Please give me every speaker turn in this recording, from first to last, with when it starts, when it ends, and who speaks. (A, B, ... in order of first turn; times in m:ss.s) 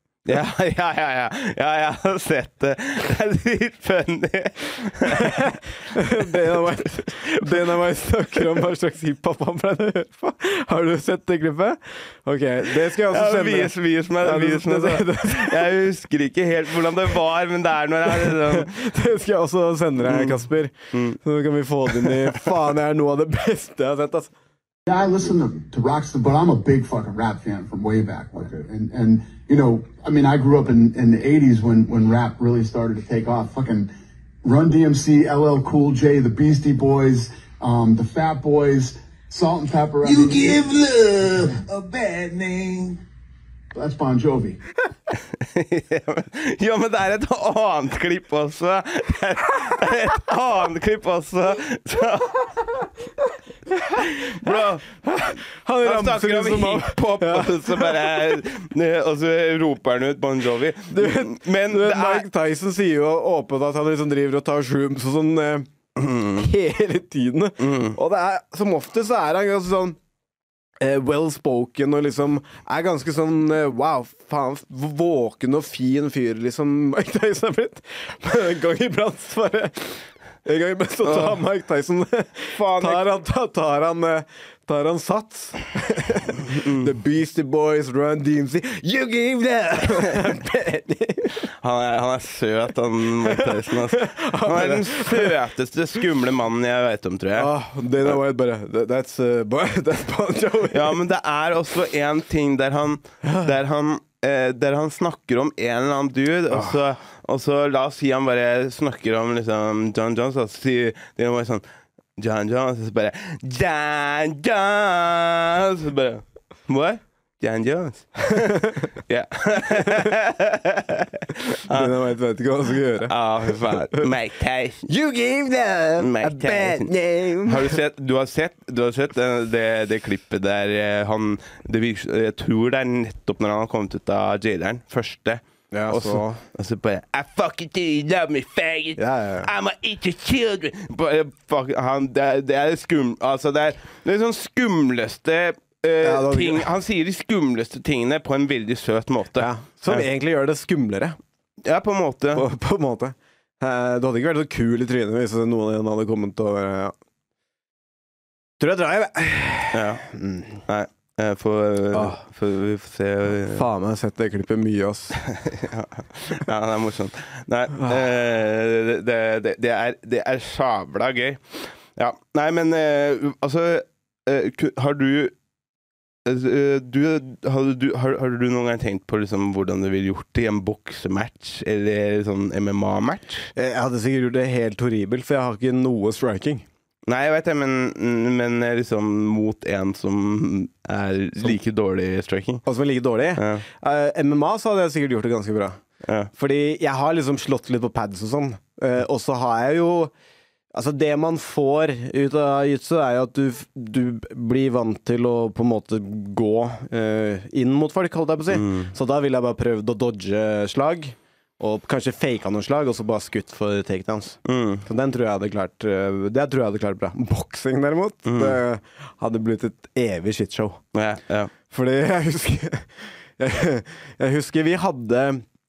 0:00.2-0:07.8 A
0:05.1-0:15.6 B
0:08.4-0:08.6 A
0:12.7-0:18.9 A
0:18.1-0:24.3 B
0:20.0-0:21.2 A
0:21.9-0:22.5 A
0:24.9-0:33.9 C
0:34.4-0:41.8 C
0:40.4-0:40.7 A
0:43.7-0:44.6 C
0:45.1-0:52.6 A
0:53.8-0:54.4 B
0:54.0-1:02.3 A
0:55.0-0:58.4 B
1:00.9-1:05.7 B
1:06.0-1:06.4 A
1:06.3-1:10.0 B
1:07.6-1:08.0 A
1:10.8-1:31.4 B
1:21.0-1:21.4 A
1:22.5-1:23.0 A
1:26.4-1:26.9 A
1:31.5-1:37.5 A
1:33.2-1:35.3 B
1:37.4-1:41.0 B
1:40.7-1:51.6 A
1:46.5-1:46.8 B
1:52.2-2:01.9 A
1:58.4-1:58.9 B
2:01.6-2:04.1 B
2:03.0-2:04.9 A
2:04.9-2:07.8 B
2:06.0-2:06.9 A
2:07.4-2:30.0 A
2:15.7-2:16.4 B
2:19.0-2:19.5 B
2:26.0-2:26.7 B
2:29.4-2:31.2 B
2:31.6-2:32.4 A
2:32.3-2:36.9 B
2:38.6-2:40.6 B
2:39.7-2:40.0 A
2:40.6-2:43.6 A
2:41.9-2:42.2 B
2:43.3-2:45.2 B
2:45.2-2:55.3 A
2:56.2-3:03.5 A
3:03.6-3:06.6 B
3:07.1-3:12.6 A
3:12.6-3:15.8 B
3:13.4-3:13.6 A
3:16.0-3:16.3 A
3:16.3-3:20.1 B
3:20.7-3:40.8 B
3:28.5-3:28.9 A
3:34.4-3:34.8 A
3:38.2-3:38.6 A
3:40.9-3:41.5 A
3:41.7-3:45.4 B